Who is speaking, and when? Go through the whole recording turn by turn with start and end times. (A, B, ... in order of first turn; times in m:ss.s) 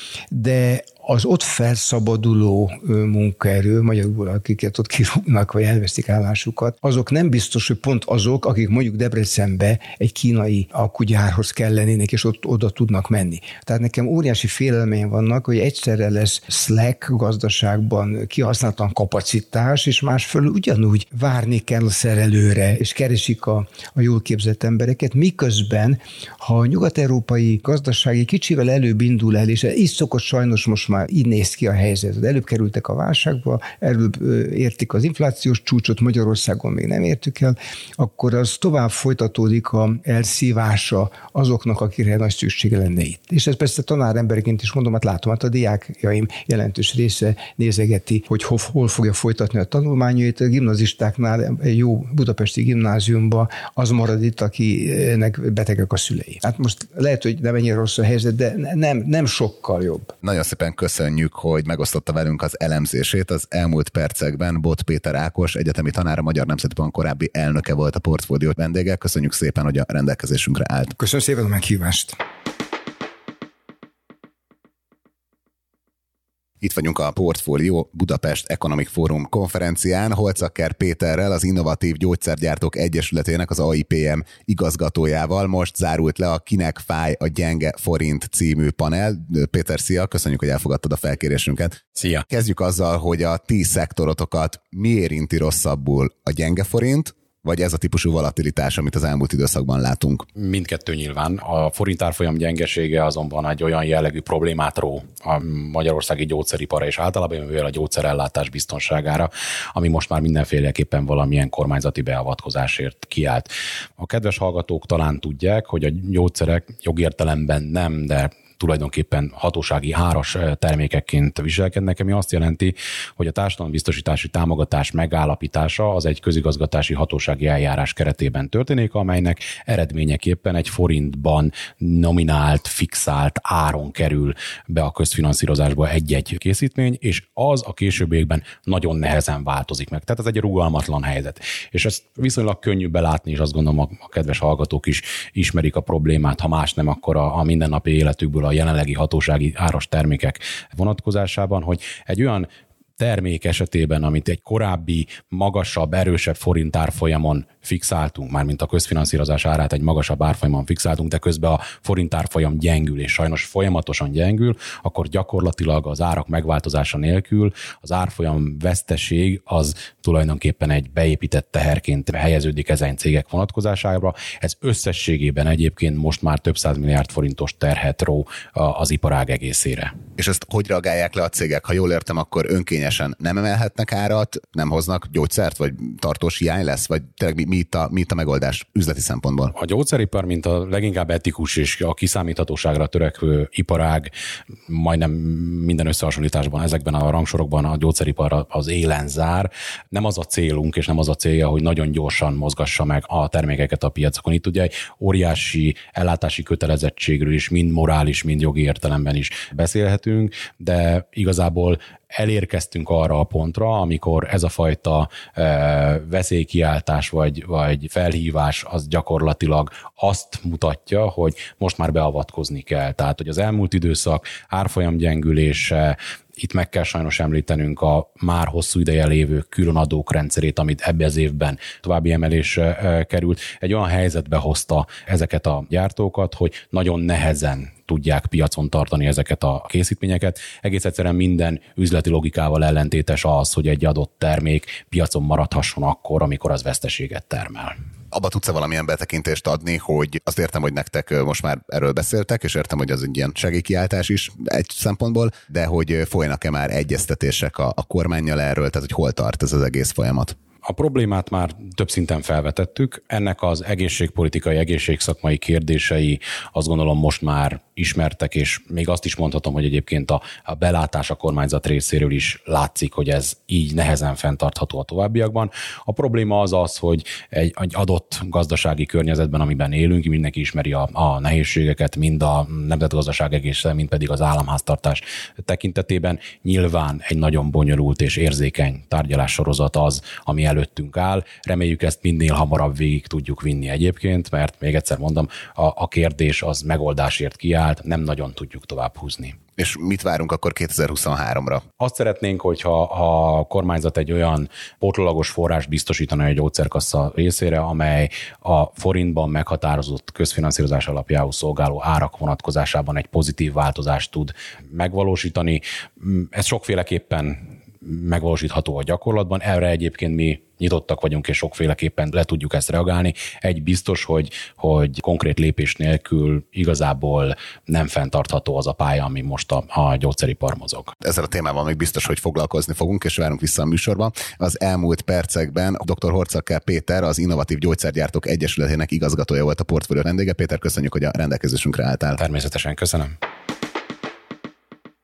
0:00.3-1:00.1 A
1:00.2-1:11.0 B
1:11.0-1:12.2 A
1:16.6-1:40.3 B
1:32.0-1:32.2 C
1:40.4-2:32.5 C
2:33.0-2:59.9 C
3:00.2-3:09.5 B
3:09.6-3:14.1 C
3:14.7-4:07.7 C
4:08.1-4:20.4 B
4:20.6-4:59.4 C
4:59.6-5:01.6 B
5:01.8-5:31.0 C
5:31.0-5:42.2 B
5:42.2-5:43.1 C